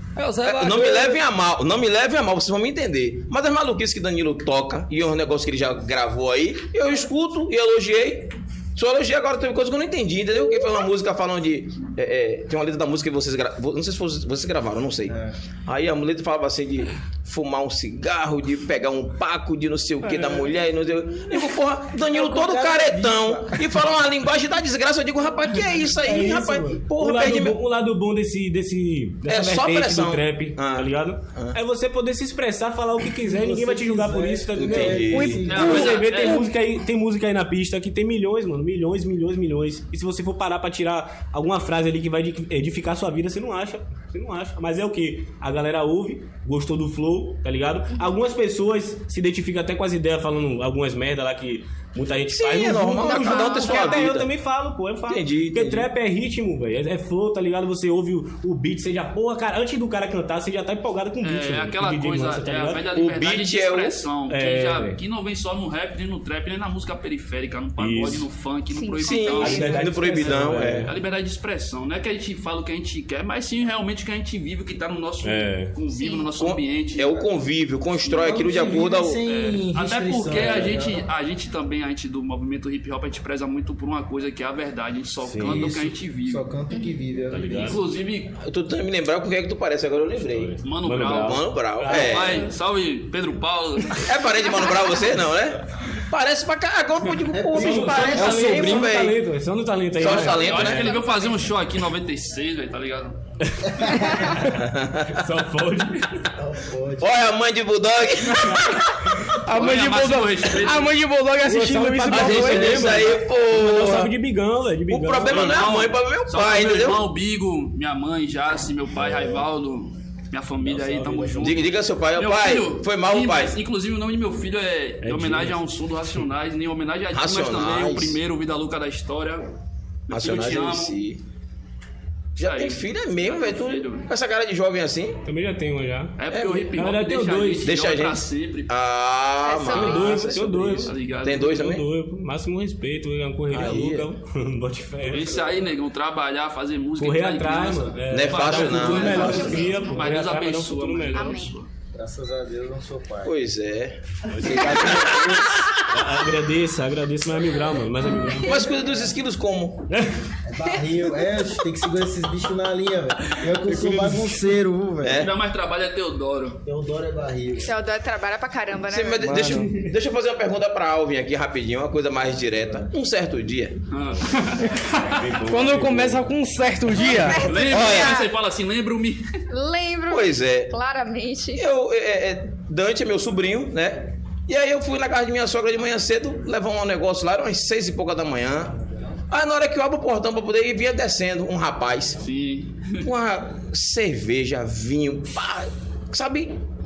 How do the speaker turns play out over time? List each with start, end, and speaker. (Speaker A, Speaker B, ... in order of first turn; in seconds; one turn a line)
Speaker A: 0.1-1.2
Speaker B: 0.4-27.6
Speaker C: 15.1-15.3
Speaker D: 20.1-20.4
Speaker C: 22.0-23.9
Speaker C: 26.0-26.8
Speaker D: 26.1-62.9
Speaker B: 29.2-31.6
Speaker C: 33.2-36.0
Speaker B: 34.5-35.5
Speaker A: 35.1-36.5
Speaker E: 35.5-36.5
Speaker B: 52.3-54.3
Speaker F: 52.9-54.1
Speaker B: 55.1-55.9
Speaker E: 61.2-77.2
Speaker B: 62.9-64.0
Speaker D: 64.3-65.0
Speaker D: 67.8-68.3
Speaker F: 68.7-69.8
Speaker B: 69.0-70.9
Speaker D: 69.4-71.0
Speaker D: 75.2-75.7
Speaker F: 75.9-76.3
Speaker B: 76.4-79.2
Speaker C: 78.2-81.0
Speaker E: 78.2-86.5
Speaker D: 80.3-80.8
Speaker D: 85.2-85.7
Speaker C: 85.4-87.8
Speaker F: 86.7-87.0
Speaker D: 87.3-87.8
Speaker E: 87.6-88.3
Speaker B: 88.4-90.5
Speaker D: 90.3-92.3
Speaker E: 90.6-94.1
Speaker B: 91.1-92.5
Speaker B: 93.9-99.2
Speaker C: 97.3-98.8
Speaker D: 97.5-101.0
Speaker B: 99.9-100.9
Speaker E: 100.0-103.2
Speaker F: 100.6-101.4
Speaker D: 103.4-106.3
Speaker C: 103.8-104.3
Speaker B: 104.4-105.3
Speaker C: 106.3-107.1
Speaker B: 107.0-109.2
Speaker D: 108.3-109.4
Speaker A: 109.5-112.9
Speaker E: 109.5-110.9
Speaker D: 111.4-115.6
Speaker B: 112.1-114.1
Speaker E: 112.4-113.0
Speaker B: 114.9-117.0
Speaker E: 115.2-129.4
Speaker D: 119.1-119.4
Speaker D: 120.6-121.6
Speaker B: 121.4-123.6
Speaker D: 125.0-125.6
Speaker B: 127.1-128.2
Speaker E: 130.1-130.9
Speaker B: 130.1-131.2
Speaker E: 132.3-134.1
Speaker B: 132.4-135.2
Speaker D: 135.2-136.2
Speaker E: 136.2-138.7
Speaker B: 136.3-136.7
Speaker D: 136.7-137.7
Speaker B: 137.6-141.8
Speaker F: 139.4-140.3
Speaker D: 139.7-145.4
Speaker E: 140.8-141.5
Speaker B: 143.5-144.1
Speaker E: 145.0-151.7
Speaker D: 147.0-151.4
Speaker B: 148.1-149.7
Speaker F: 148.8-150.1
Speaker F: 151.1-151.5
Speaker C: 151.9-153.3
Speaker B: 153.2-155.4
Speaker D: 154.3-158.6
Speaker A: 154.6-155.5
Speaker C: 154.7-155.0
Speaker F: 158.2-158.6
Speaker B: 158.4-159.9
Speaker C: 158.7-158.9
Speaker D: 159.9-160.2
Speaker C: 160.4-165.3
Speaker F: 160.7-161.6
Speaker D: 163.6-164.4
Speaker B: 165.0-165.3
Speaker E: 165.2-166.6
Speaker C: 166.6-167.7
Speaker F: 167.6-169.3
Speaker B: 168.9-173.8
Speaker A: 169.2-169.8
Speaker E: 173.9-175.2
Speaker D: 174.1-176.3
Speaker A: 175.4-178.1
Speaker F: 176.9-178.3
Speaker E: 177.4-179.3
Speaker F: 179.5-181.7
Speaker B: 180.1-180.7
Speaker B: 181.5-188.8
Speaker B: 189.3-192.2
Speaker E: 192.2-193.1
Speaker B: 193.0-196.5